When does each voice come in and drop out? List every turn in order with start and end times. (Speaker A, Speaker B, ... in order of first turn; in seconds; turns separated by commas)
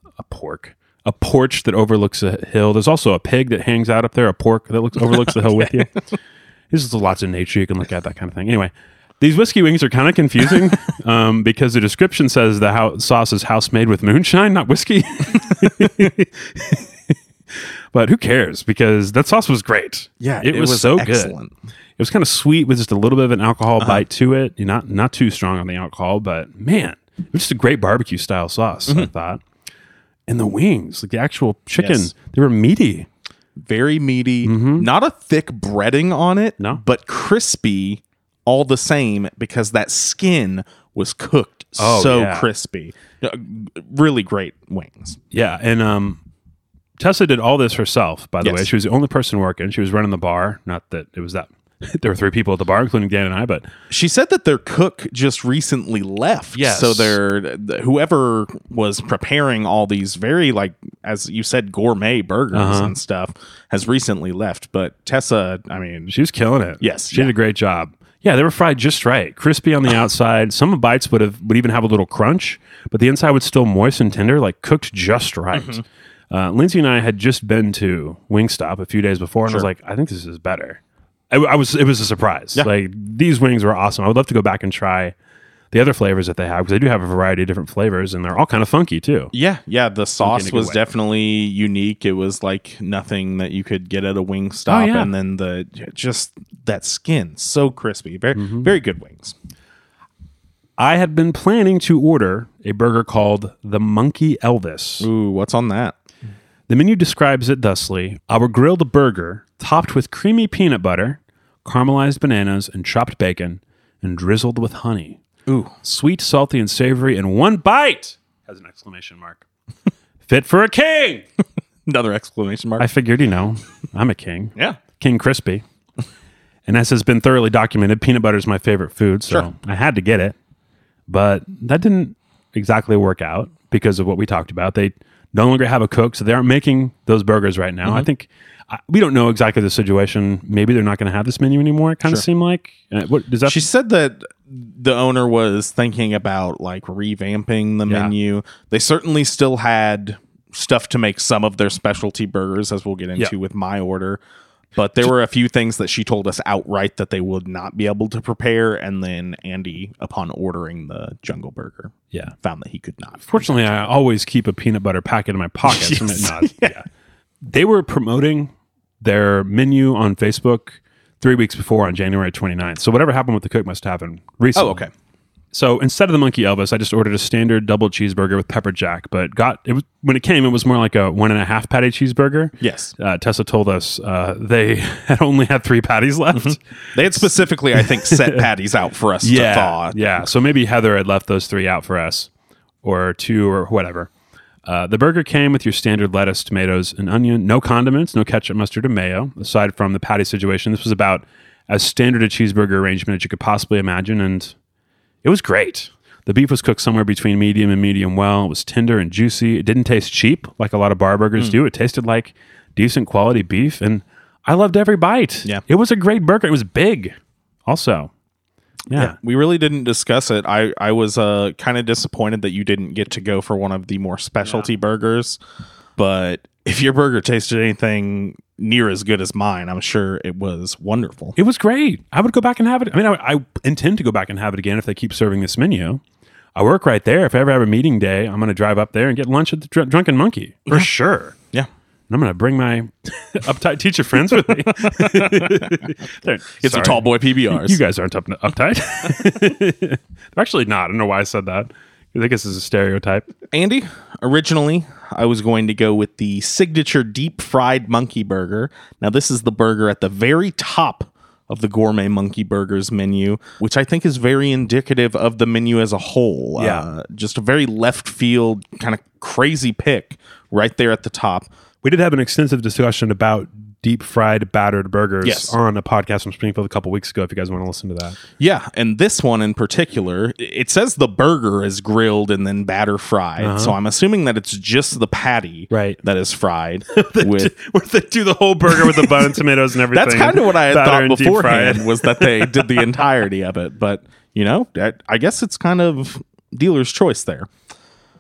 Speaker A: 0.2-5.9, Speaker B: 5.0-5.8, Speaker A: 6.7-17.1, Speaker A: 17.9-21.3, Speaker B: 20.2-21.5, Speaker A: 22.0-29.4, Speaker B: 23.8-24.0, Speaker A: 30.3-33.1, Speaker B: 31.8-32.1, Speaker B: 33.6-45.2, Speaker A: 34.4-34.9, Speaker A: 41.8-42.5, Speaker A: 45.3-46.2, Speaker A: 47.0-53.7, Speaker B: 48.4-48.7, Speaker B: 53.9-66.1, Speaker A: 56.5-57.2, Speaker A: 62.5-63.0, Speaker A: 66.1-80.8, Speaker B: 66.8-67.3, Speaker B: 75.5-75.8, Speaker A: 81.3-85.1, Speaker A: 85.7-89.3, Speaker B: 89.3-99.4, Speaker A: 90.2-90.9, Speaker A: 94.7-95.1, Speaker A: 98.3-98.7, Speaker A: 100.8-105.1, Speaker B: 105.0-106.0, Speaker A: 106.7-115.2, Speaker B: 115.5-115.7, Speaker A: 115.8-119.4, Speaker A: 120.3-121.2, Speaker B: 121.9-122.9, Speaker A: 122.8-125.6, Speaker A: 126.7-130.4, Speaker A: 131.1-143.6, Speaker B: 143.5-154.2, Speaker A: 147.9-148.1, Speaker B: 154.8-163.7, Speaker A: 163.3-166.8, Speaker B: 165.7-166.8, Speaker A: 167.4-174.8, Speaker B: 174.6-174.9, Speaker A: 175.5-186.6, Speaker B: 182.6-182.9, Speaker B: 186.3-190.1, Speaker A: 187.8-188.4, Speaker A: 189.2-192.3, Speaker A: 192.8-194.1, Speaker A: 194.7-204.5, Speaker A: 205.2-217.2, Speaker A: 217.7-218.1, Speaker A: 218.9-219.2, Speaker B: 218.9-225.4, Speaker A: 224.4-224.7, Speaker B: 226.0-231.3, Speaker A: 231.4-236.0, Speaker A: 236.6-241.4, Speaker A: 242.1-253.3, Speaker B: 244.3-245.8, Speaker B: 246.6-247.8, Speaker B: 253.5-271.5, Speaker A: 266.6-266.9, Speaker A: 271.8-278.2, Speaker B: 275.2-275.6, Speaker B: 278.4-287.5, Speaker A: 283.4-283.8, Speaker A: 285.7-286.0, Speaker A: 286.9-292.9, Speaker B: 288.7-289.4, Speaker B: 289.9-297.5